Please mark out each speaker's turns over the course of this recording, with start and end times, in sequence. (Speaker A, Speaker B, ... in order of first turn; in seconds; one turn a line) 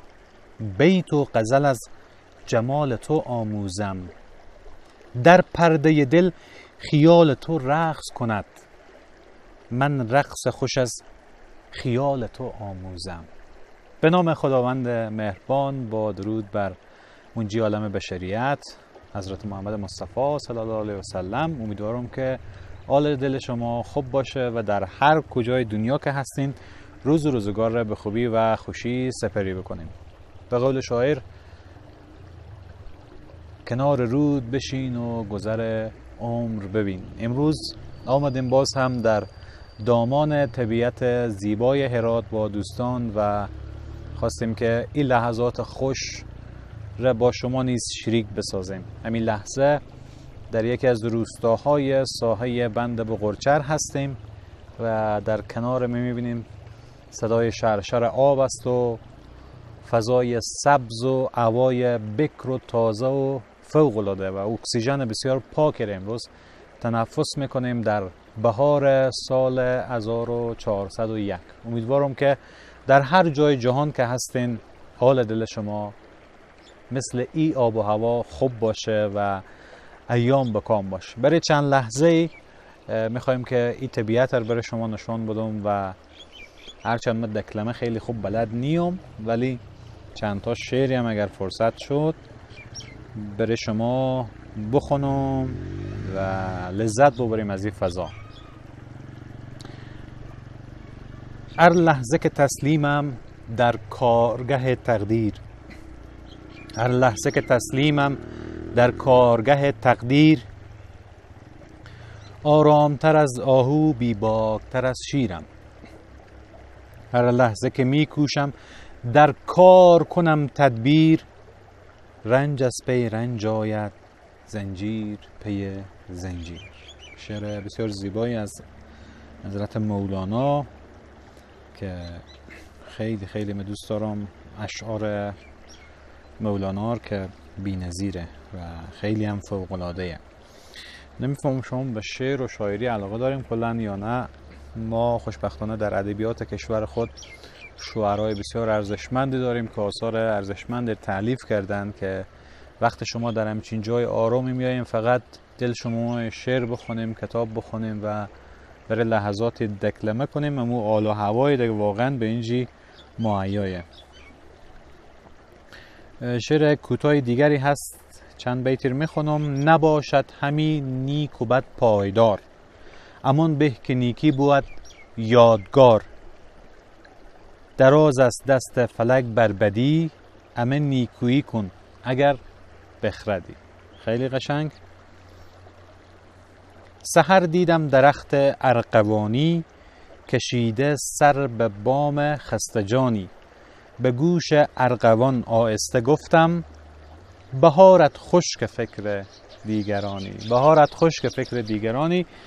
Speaker A: 0.6-1.9
Speaker A: 2.5-4.1
Speaker A: 5.2-8.6
Speaker A: 9.7-11.0
Speaker A: 11.7-13.3
Speaker A: 14.0-16.8
Speaker A: 17.4-29.9
Speaker A: 30.5-31.2
Speaker A: 33.6-39.3
Speaker A: 39.8-43.5
Speaker A: 44.1-46.3
Speaker A: 47.0-49.8
Speaker A: 50.5-54.2
Speaker A: 54.8-56.5
Speaker A: 57.1-59.0
Speaker A: 59.8-66.3
Speaker A: 66.8-76.0
Speaker A: 76.9-79.4
Speaker A: 80.1-82.3
Speaker A: 82.9-86.0
Speaker A: 86.8-89.6
Speaker A: 90.2-92.2
Speaker A: 93.2-98.1
Speaker A: 101.6-105.4
Speaker A: 106.8-108.2
Speaker A: 108.7-110.5
Speaker A: 112.4-115.5
Speaker A: 117.1-118.5
Speaker A: 119.0-121.3
Speaker A: 122.2-123.9
Speaker A: 124.5-128.6
Speaker A: 129.4-130.7
Speaker A: 131.7-132.3
Speaker A: 132.8-135.4
Speaker A: 136.4-140.2
Speaker A: 141.2-147.1
Speaker A: 147.8-152.3
Speaker A: 152.8-158.3
Speaker A: 158.9-163.9
Speaker A: 166.2-172.4
Speaker A: 173.2-176.1
Speaker A: 177.8-182.4
Speaker A: 183.0-184.7
Speaker A: 187.0-189.7
Speaker A: 190.3-193.3
Speaker A: 194.0-196.7
Speaker A: 197.6-202.3